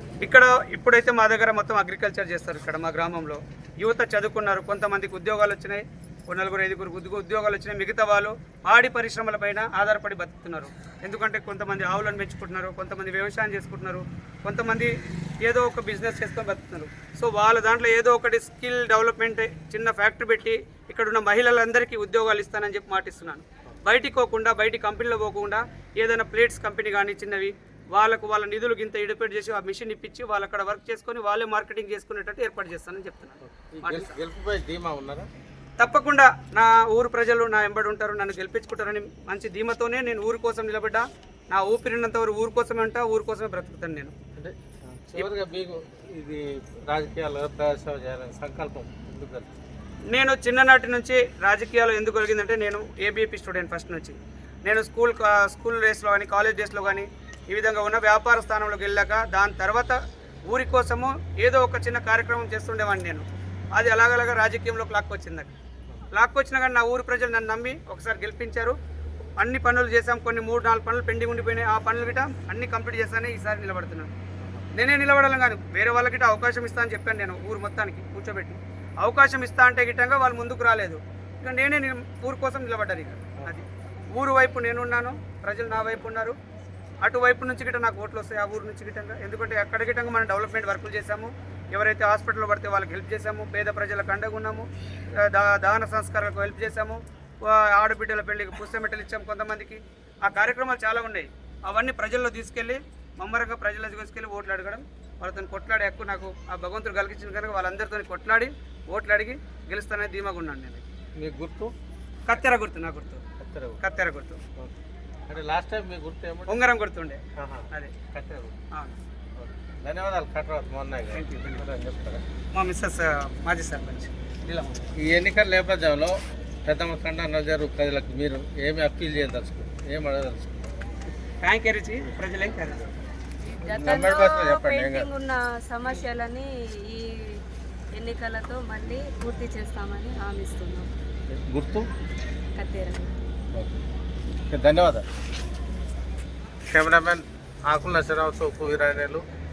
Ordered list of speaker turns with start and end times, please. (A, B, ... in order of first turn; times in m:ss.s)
0:00.2-0:14.9 A
0:15.4-0:34.1 A
0:33.4-0:35.3 B
0:35.8-0:44.1 A
0:44.3-0:49.5 B
0:50.1-1:00.0 A
1:00.5-1:05.5 A
1:06.1-1:08.8 A
1:09.4-1:14.1 A
1:14.4-1:14.7 B
1:14.7-1:26.4 A
1:27.0-1:50.8 A
1:51.2-1:51.7 B
1:52.3-1:53.2 A
1:53.4-1:53.8 B
1:53.8-1:54.4 A
1:55.3-1:56.6 B
1:56.5-1:57.2 A
1:57.4-1:58.6 B
1:59.4-2:02.2 B
2:01.1-2:01.6 A
2:02.5-2:04.8 A
2:05.0-2:10.7 B
2:11.4-2:12.8 A
2:13.4-2:17.4 C
2:13.7-2:15.1 B
2:17.9-2:20.9 C
2:21.3-2:21.9 B
2:22.5-2:23.1 C
2:24.5-2:25.0 B
2:26.7-2:29.2 B